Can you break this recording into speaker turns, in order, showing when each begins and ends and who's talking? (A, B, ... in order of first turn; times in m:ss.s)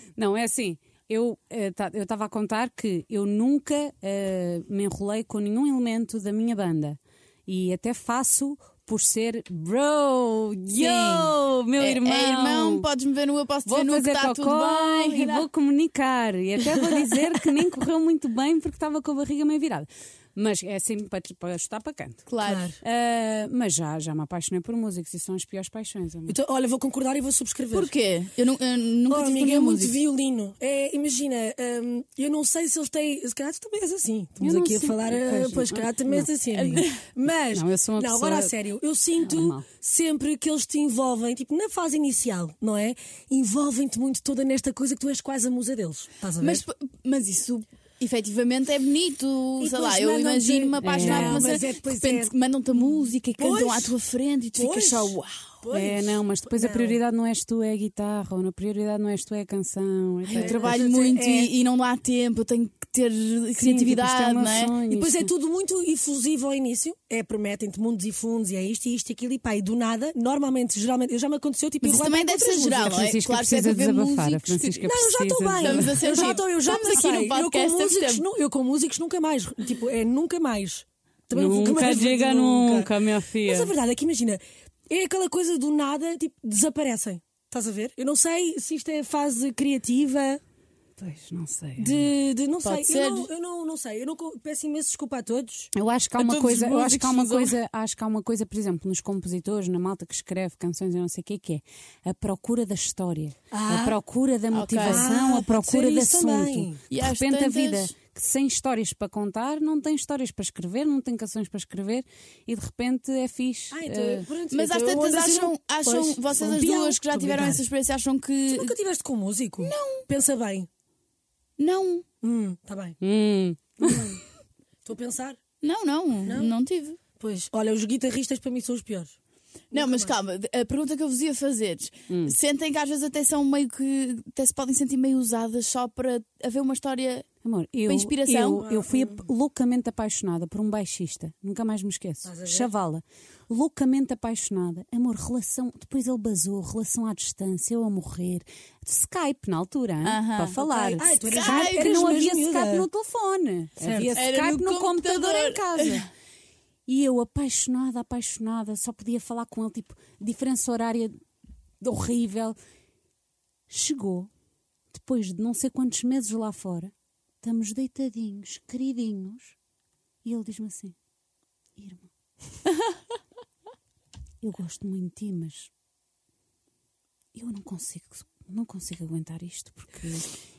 0:00.2-0:12.8 A
0:10.7-0:15.4 B
0:13.6-0:22.2 A
0:22.3-0:22.7 B
0:22.4-0:22.8 C
0:22.8-0:26.4 A
0:26.3-0:27.9 C
0:27.7-0:30.0 B
0:29.1-0:46.6 C
0:34.4-0:36.3 A
0:36.5-0:37.0 B
0:37.5-0:38.5 A
0:39.2-0:39.6 A
0:46.4-0:55.5 B
0:49.6-0:52.3 C
0:50.8-0:51.5 A
0:53.4-0:53.9 C
0:54.6-0:57.0 C
0:55.7-1:00.7 A
1:00.3-1:04.7 B
1:00.3-1:01.5 C
1:03.6-1:05.3 A
1:04.9-1:13.0 C
1:11.8-1:14.9 B
1:12.9-1:16.1 A
1:14.8-1:22.9 C
1:15.6-1:18.2 B
1:21.3-1:23.7 A
1:23.4-1:30.4 C
1:31.0-1:32.1 A
1:31.8-1:35.7 C
1:32.6-1:33.3 B
1:35.7-1:54.3 A
1:36.2-1:37.5 B
1:43.5-1:44.0 C
1:44.5-1:45.0 B
1:44.8-1:46.8 C
1:46.9-1:47.9 B
1:53.7-1:57.6 C
1:54.5-1:58.8 B
1:58.5-2:00.7 C
1:59.6-2:00.0 B
2:01.6-2:02.0 B
2:02.2-2:03.0 C
2:03.0-2:04.2 A
2:04.8-2:05.4 C
2:05.6-2:07.0 B
2:06.2-2:06.5 C
2:07.2-2:09.2 C
2:09.7-2:10.1 C
2:09.7-2:17.3 B
2:12.1-2:12.4 A
2:17.4-2:36.1 A
2:17.9-2:18.8 B
2:18.7-2:19.1 C
2:22.2-2:22.7 C
2:30.0-2:32.0 B
2:30.8-2:32.9 C
2:33.8-2:34.2 C
2:34.1-2:36.0 B
2:36.9-2:41.2 A
2:41.8-2:42.6 A
2:43.7-2:44.3 A
2:44.9-2:49.6 A
2:50.2-2:50.9 A
2:51.8-2:52.1 A
2:54.4-2:55.7 A
2:57.3-3:00.3 A